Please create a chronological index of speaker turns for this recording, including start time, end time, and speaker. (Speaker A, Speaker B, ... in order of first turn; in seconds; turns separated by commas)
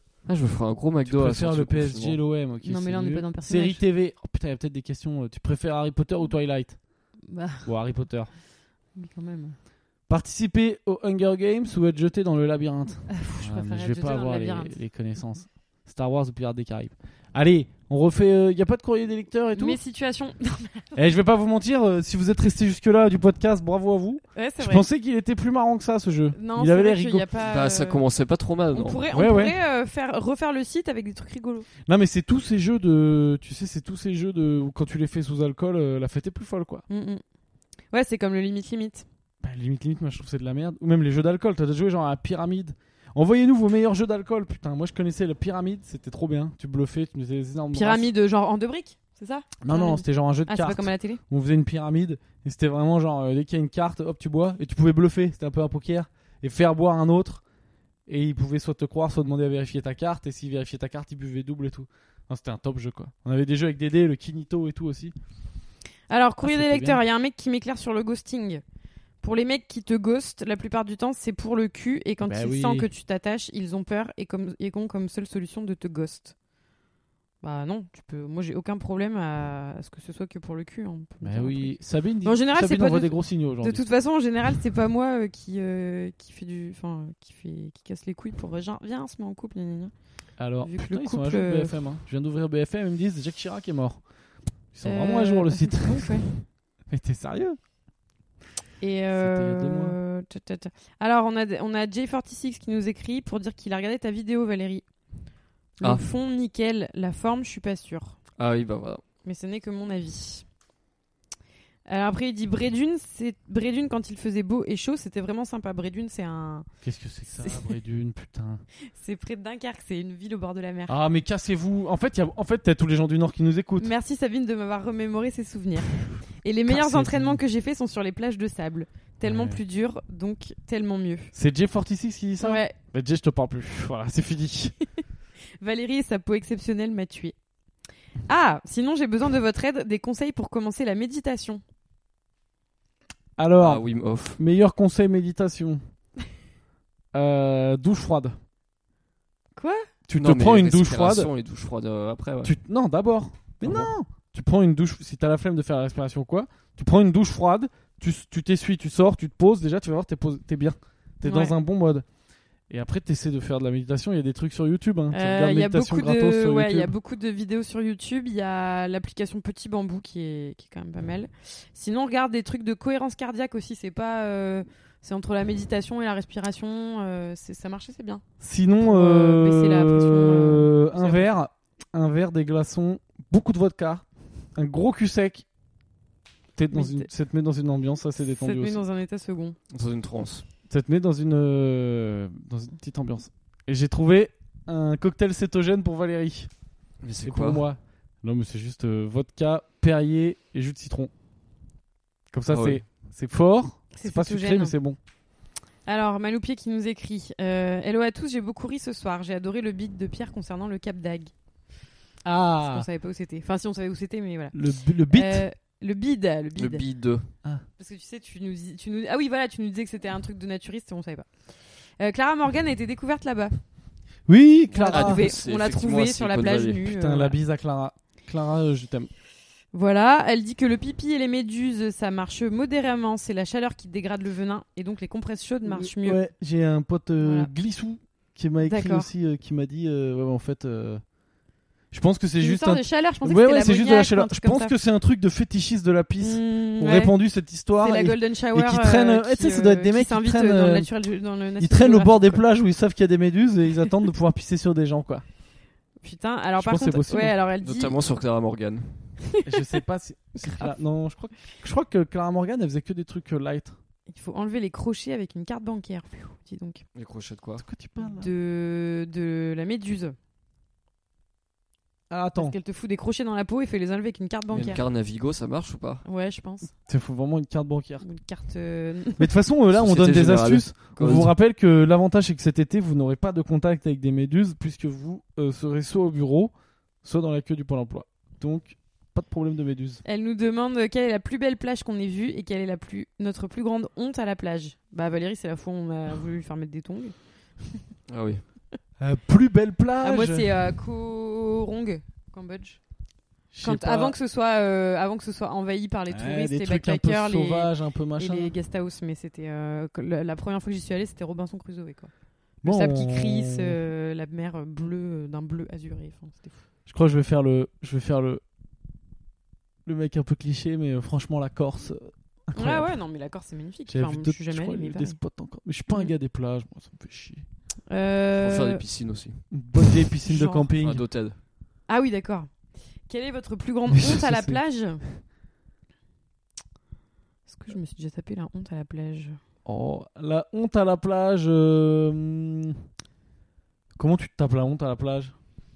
Speaker A: 0.2-2.2, Speaker B: 1.0-6.8, Speaker C: 2.6-3.8, Speaker C: 7.3-7.7, Speaker B: 7.6-8.3, Speaker C: 8.9-9.6, Speaker B: 10.1-19.8, Speaker C: 13.1-14.8, Speaker C: 19.5-21.0, Speaker B: 20.9-27.2, Speaker C: 24.4-24.9, Speaker C: 26.3-28.0, Speaker A: 27.4-29.1, Speaker C: 28.7-31.7, Speaker B: 29.1-29.5, Speaker B: 31.9-36.8, Speaker C: 36.9-37.2, Speaker C: 37.9-39.0, Speaker B: 39.4-48.1, Speaker C: 47.7-51.2, Speaker B: 49.6-57.4, Speaker B: 58.1-65.1, Speaker C: 66.1-68.6, Speaker B: 66.4-67.0, Speaker C: 69.2-76.3, Speaker B: 72.2-72.9, Speaker C: 77.4-89.9, Speaker B: 81.2-83.9, Speaker B: 90.4-94.0, Speaker C: 90.6-91.7, Speaker B: 94.7-96.2, Speaker C: 94.8-96.3, Speaker B: 96.9-97.6, Speaker C: 98.8-104.8, Speaker B: 99.1-100.0, Speaker C: 105.8-108.2, Speaker A: 105.8-106.1, Speaker A: 108.4-109.0, Speaker C: 109.2-110.5, Speaker C: 111.9-116.7, Speaker B: 116.8-118.6, Speaker C: 117.4-117.7, Speaker C: 118.9-120.9, Speaker B: 120.9-123.9, Speaker C: 123.8-131.3, Speaker B: 126.7-127.4, Speaker B: 129.2-129.6, Speaker B: 131.3-134.7, Speaker C: 132.4-132.7, Speaker C: 135.6-137.3, Speaker C: 138.3-141.6, Speaker B: 143.4-143.8, Speaker A: 143.6-144.4, Speaker B: 144.4-145.8, Speaker B: 147.1-148.4, Speaker C: 149.6-149.9, Speaker B: 150.1-151.3, Speaker A: 150.2-152.5, Speaker B: 152.4-162.0, Speaker A: 153.6-153.9, Speaker C: 161.2-161.5, Speaker B: 162.7-166.9, Speaker C: 165.1-178.2, Speaker B: 178.4-185.4, Speaker C: 178.8-181.4, Speaker B: 186.5-188.8, Speaker C: 186.7-187.1, Speaker C: 188.4-189.6, Speaker A: 189.7-190.4, Speaker B: 190.7-196.5, Speaker A: 197.0-197.6, Speaker B: 197.2-201.1, Speaker B: 202.3-205.0, Speaker A: 202.5-202.8, Speaker C: 203.9-204.7, Speaker C: 205.9-211.3, Speaker B: 212.2-212.9, Speaker C: 212.6-214.6, Speaker B: 214.5-215.4, Speaker C: 215.1-216.8, Speaker A: 216.6-217.3, Speaker C: 217.8-223.6, Speaker B: 224.3-225.3, Speaker A: 224.7-226.8, Speaker C: 224.8-227.4, Speaker B: 226.8-229.1, Speaker C: 229.7-236.2, Speaker B: 235.6-241.0, Speaker C: 237.2-237.5, Speaker C: 238.6-239.1, Speaker B: 241.9-250.9, Speaker C: 242.4-244.7, Speaker C: 246.2-247.1, Speaker C: 247.8-252.4, Speaker B: 251.6-255.2, Speaker C: 256.0-258.0, Speaker B: 256.6-257.4, Speaker A: 257.6-259.0, Speaker B: 259.4-263.8, Speaker C: 260.4-260.7, Speaker C: 264.1-266.9, Speaker A: 266.9-267.6, Speaker B: 267.6-268.3, Speaker C: 268.0-270.1, Speaker B: 272.1-272.5, Speaker C: 272.4-274.8, Speaker A: 274.5-276.0, Speaker C: 276.0-276.7, Speaker B: 276.9-278.0, Speaker C: 278.0-279.3, Speaker B: 279.2-286.5, Speaker A: 279.7-281.3, Speaker B: 287.0-290.0, Speaker C: 290.0-297.8, Speaker A: 298.1-298.4, Speaker B: 299.0-300.5, Speaker C: 300.0-302.8, Speaker B: 303.5-304.1, Speaker C: 303.6-312.1, Speaker B: 306.1-308.5, Speaker B: 312.6-313.8, Speaker C: 312.6-316.6, Speaker B: 316.9-318.4, Speaker B: 319.9-322.9, Speaker C: 322.6-325.2, Speaker B: 323.9-327.5, Speaker C: 327.9-328.8, Speaker A: 328.3-329.4, Speaker B: 329.5-331.0, Speaker C: 330.2-330.7, Speaker A: 330.8-331.4, Speaker C: 331.9-335.1, Speaker B: 333.9-334.6, Speaker C: 337.5-339.4, Speaker B: 339.6-342.8, Speaker B: 344.0-345.3